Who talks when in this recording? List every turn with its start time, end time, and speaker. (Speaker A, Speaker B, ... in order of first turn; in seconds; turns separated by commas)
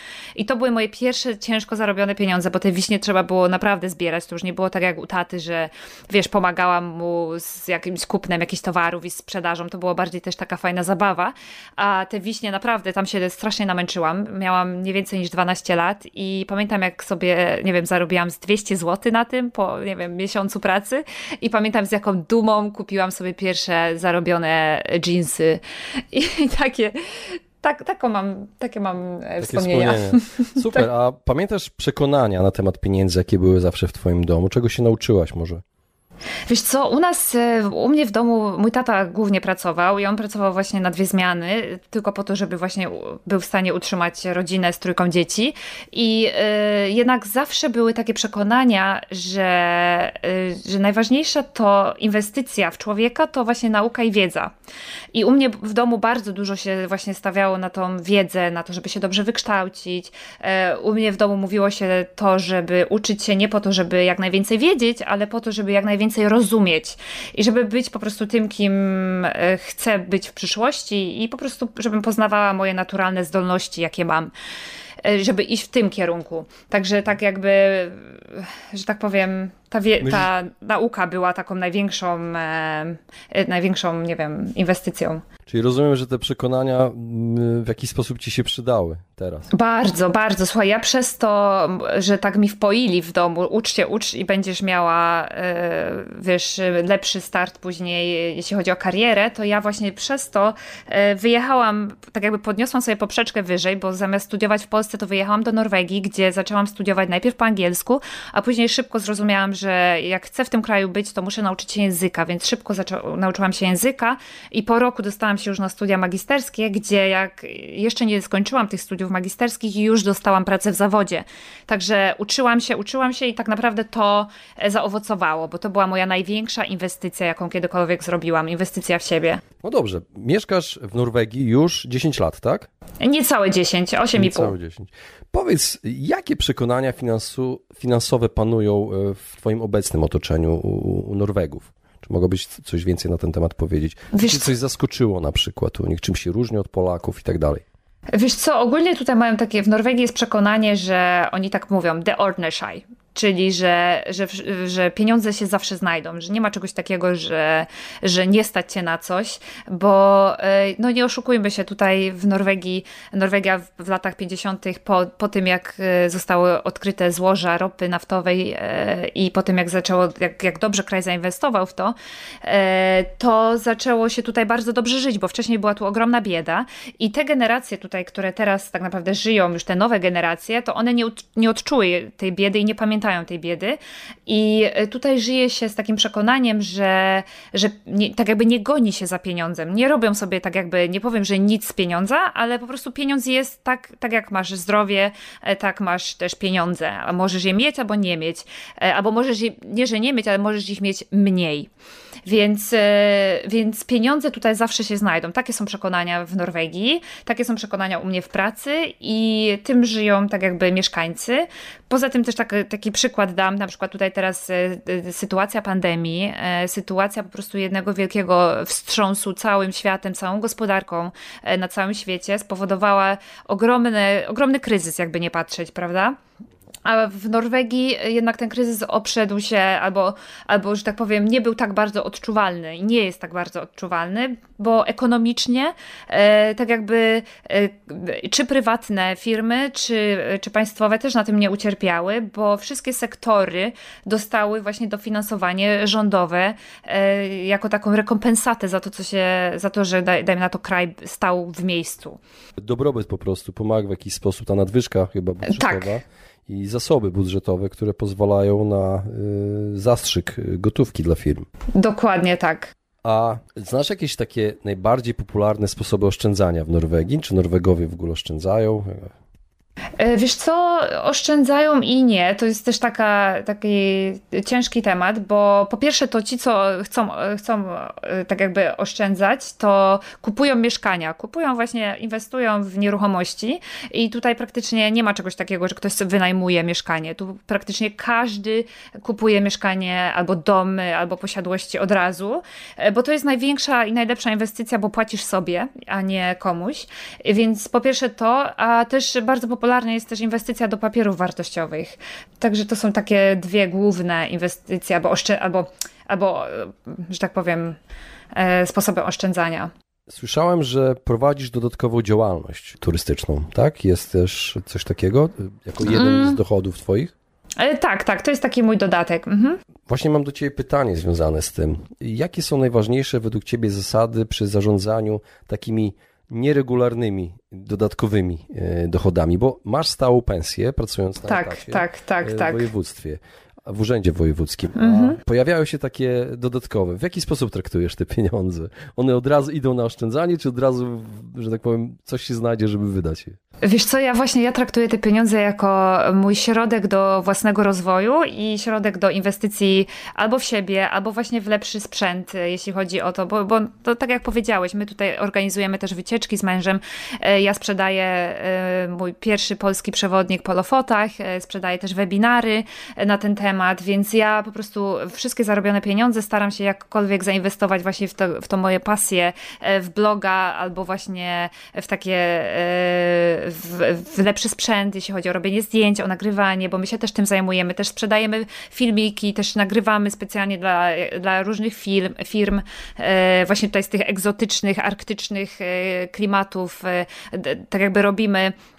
Speaker A: 0.4-30.8, Speaker B: 29.4-35.6, Speaker A: 36.5-54.5, Speaker A: 55.1-74.3, Speaker A: 75.0-85.2, Speaker B: 80.0-80.3, Speaker B: 85.5-89.5, Speaker A: 89.5-129.4, Speaker B: 129.6-132.7, Speaker A: 133.0-134.5, Speaker B: 134.1-147.6, Speaker A: 144.1-144.5, Speaker A: 148.1-201.7, Speaker A: 202.3-226.2, Speaker A: 226.9-252.2, Speaker B: 252.6-261.5, Speaker A: 255.4-256.0, Speaker A: 261.8-262.7, Speaker B: 263.0-269.1, Speaker A: 270.0-307.8, Speaker A: 308.3-309.7, Speaker B: 310.1-317.1, Speaker A: 315.9-316.4, Speaker A: 317.6-319.6, Speaker B: 319.9-343.4, Speaker A: 331.3-332.7, Speaker A: 334.8-335.2, Speaker A: 343.6-388.5